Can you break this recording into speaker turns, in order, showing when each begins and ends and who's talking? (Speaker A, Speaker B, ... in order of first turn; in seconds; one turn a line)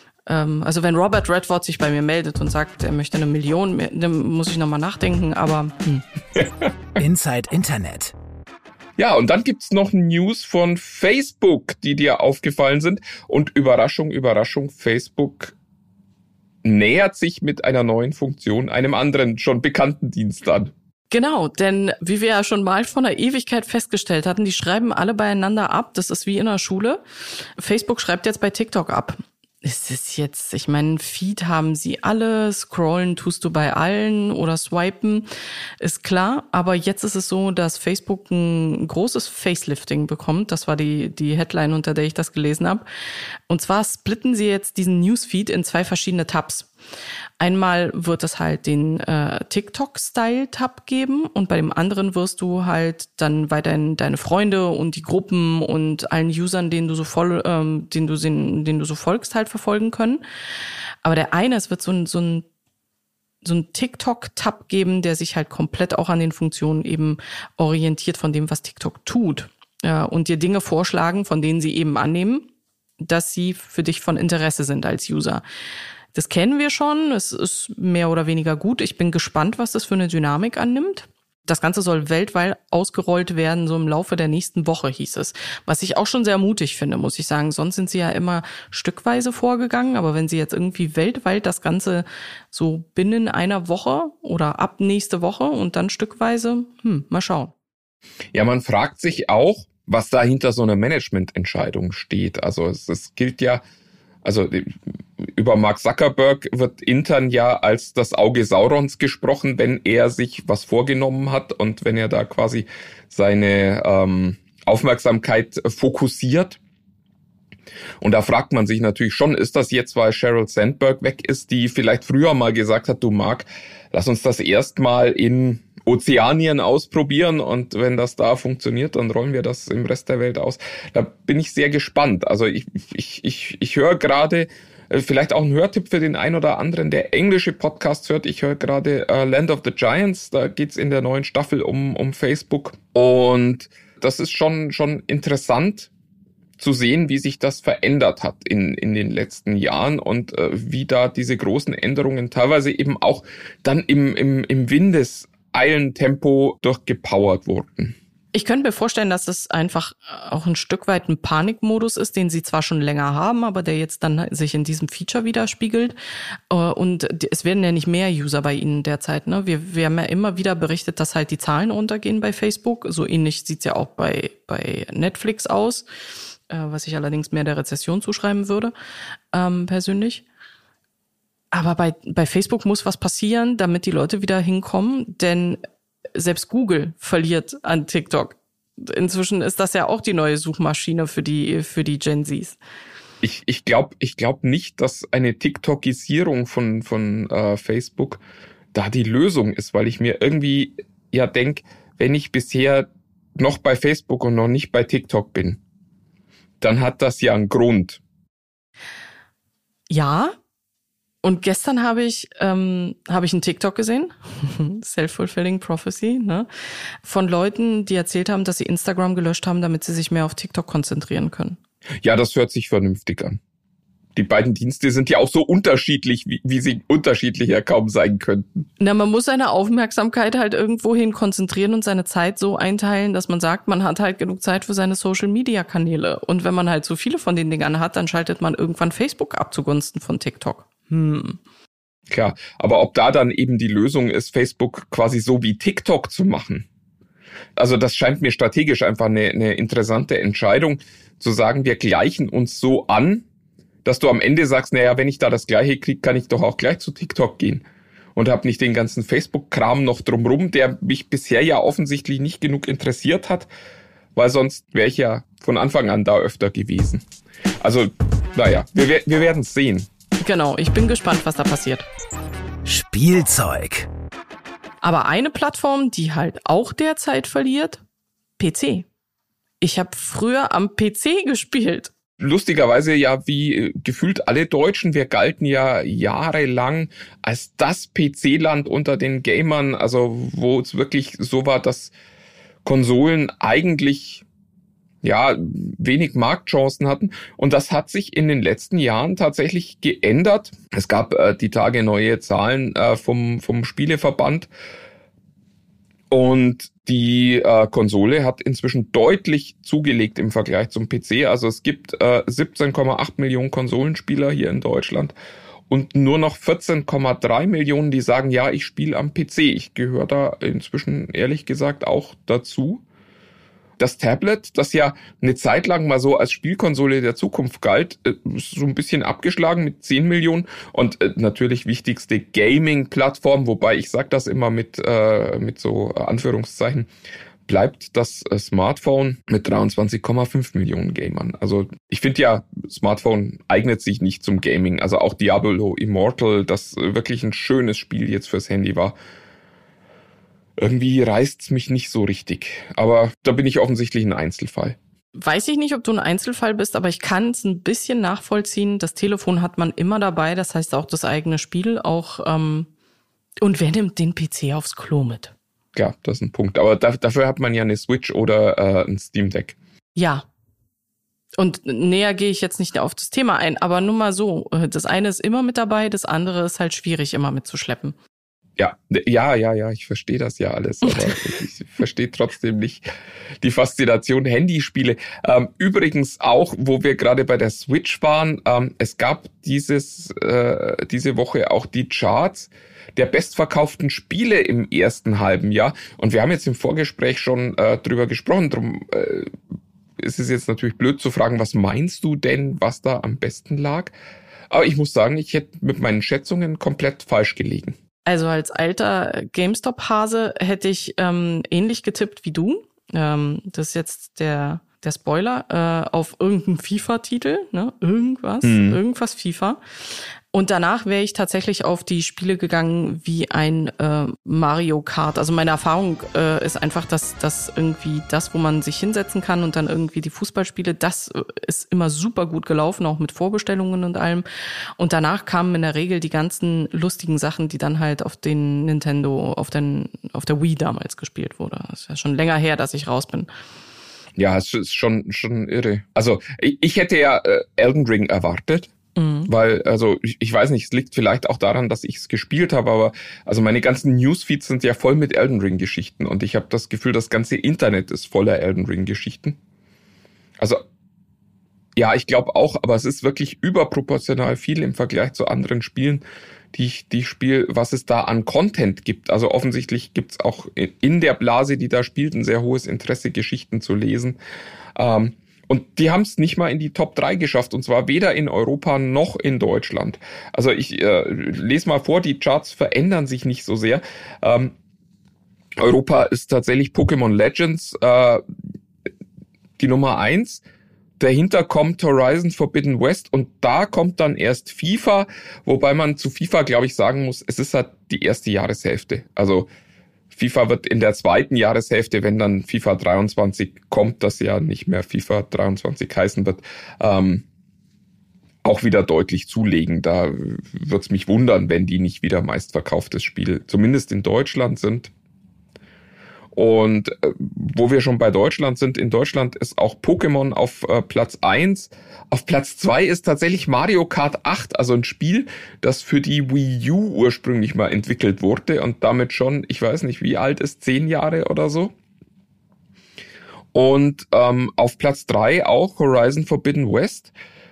Speaker A: 0.3-6.0
Speaker B: 7.0-8.1
Speaker C: 9.0-15.5
Speaker C: 16.6-20.7
Speaker A: 21.1-27.0
Speaker A: 27.6-35.3
Speaker A: 35.8-42.9
Speaker A: 43.5-46.7
Speaker A: 47.4-60.2
Speaker A: 61.0-62.5
Speaker A: 63.4-72.5
Speaker A: 73.0-75.4
Speaker A: 76.1-97.5
Speaker C: 98.3-103.6
Speaker C: 104.2-116.6
Speaker C: 118.0-145.9
Speaker C: 146.6-157.9
Speaker A: 158.3-165.9
Speaker A: 166.5-175.9
Speaker A: 176.5-178.7
Speaker A: 179.3-180.2
Speaker A: 181.5-185.6
Speaker A: 186.1-192.6
Speaker C: 193.2-198.2
Speaker C: 198.7-205.6
Speaker C: 206.6-208.0
Speaker A: 209.9-210.3
Speaker A: 211.2-216.5
Speaker A: 217.0-221.6
Speaker C: 222.0-223.4
Speaker C: 224.1-228.7
Speaker A: 228.8-241.4
Speaker C: 242.1-246.7
Speaker C: 247.6-253.2
Speaker C: 253.8-257.6
Speaker C: 258.1-263.5
Speaker C: 264.1-267.1
Speaker C: 267.6-269.9
Speaker A: 270.2-271.9
Speaker B: 272.6-273.9
Speaker A: 274.8-277.8
Speaker A: 278.4-278.9
Speaker A: 279.6-281.9
Speaker C: 282.2-291.9
Speaker C: 292.6-294.2
Speaker C: 295.0-304.5
Speaker C: 306.1-315.1
Speaker C: 315.7-322.8
Speaker C: 323.8-336.9
Speaker C: 337.4-348.9
Speaker C: 350.6-354.8
Speaker A: 355.1-362.7
Speaker A: 363.4-365.3
Speaker C: 365.7-369.6
Speaker A: 369.9-370.2
Speaker A: 371.4-377.9
Speaker C: 378.6-382.8
Speaker A: 380.9-381.2
Speaker C: 383.4-399.3
Speaker C: 400.0-403.9
Speaker C: 404.5-407.8
Speaker A: 408.1-434.2
Speaker C: 418.4-418.8
Speaker A: 434.8-443.3
Speaker C: 444.2-448.7
Speaker A: 448.9-449.3
Speaker C: 449.3-459.4
Speaker C: 461.8-474.2
Speaker C: 474.8-484.5
Speaker C: 485.6-488.2
Speaker C: 489.6-490.4
Speaker C: 491.0-499.5
Speaker C: 500.1-507.2
Speaker C: 508.4-514.9
Speaker C: 516.3-531.7
Speaker C: 533.5-537.1